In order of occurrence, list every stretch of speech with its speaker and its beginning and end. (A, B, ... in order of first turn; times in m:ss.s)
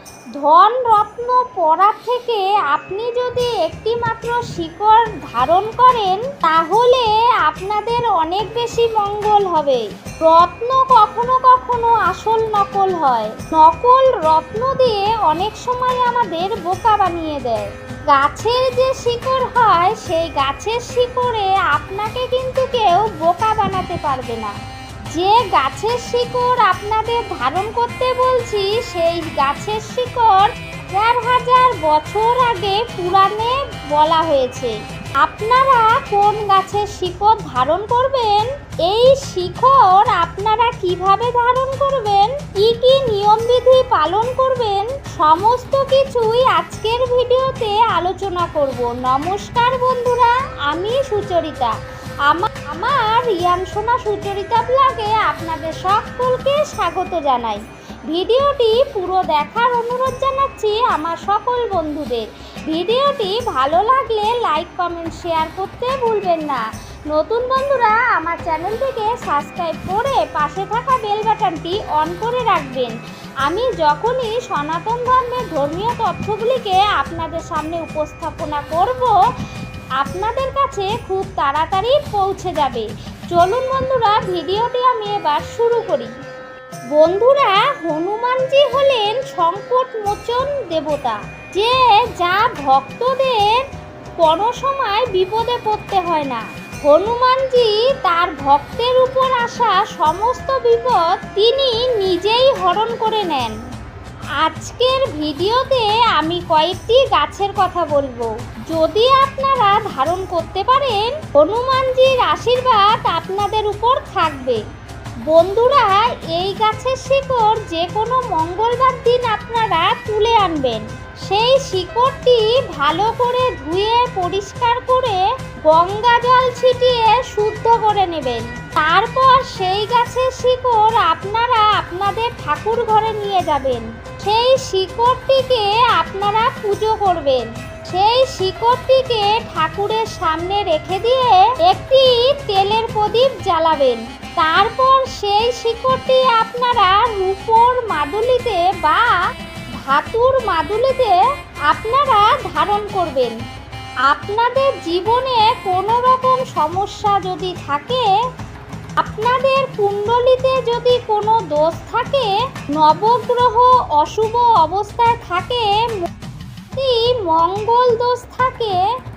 0:00.4-0:24.5 A
0:25.1-0:51.8 A
0:52.3-1:19.2 A
1:20.0-1:26.1 A
1:26.9-1:33.6 A
1:34.2-1:43.6 A
1:44.4-1:54.6 A
1:55.3-2:29.2 A
2:29.8-2:33.4 A
2:34.1-2:38.1 A
2:39.0-2:46.1 A
2:46.7-2:48.8 A